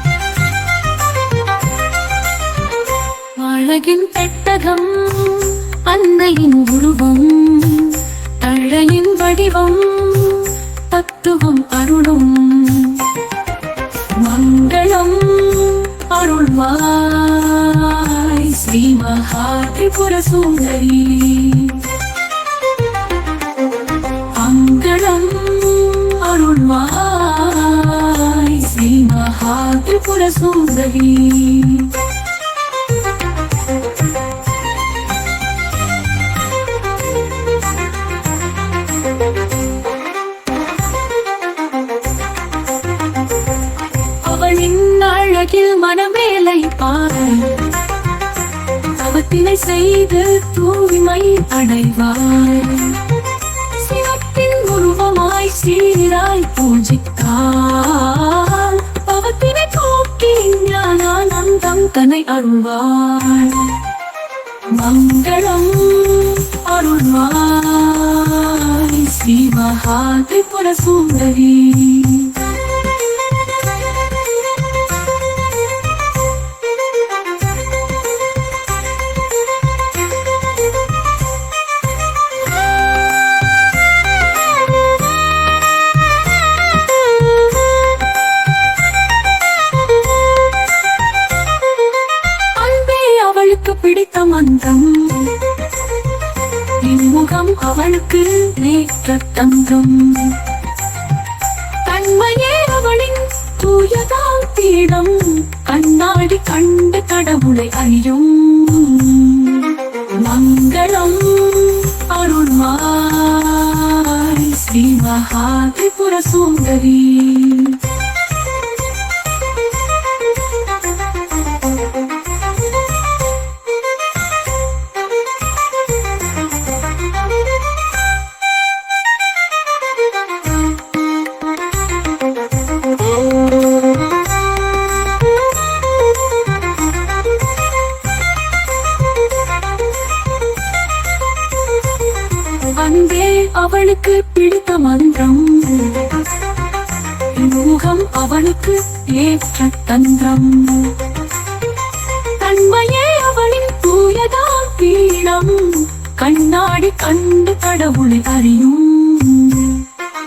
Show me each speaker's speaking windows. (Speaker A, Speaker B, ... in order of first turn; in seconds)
Speaker A: 3.4-13.2, 14.2-21.9, 24.3-32.1, 44.2-47.8, 48.9-53.1, 53.7-63.9, 64.7-72.5, 92.4-95.5, 96.8-100.5, 101.8-117.9, 142.7-146.2, 147.2-151.0, 152.4-159.9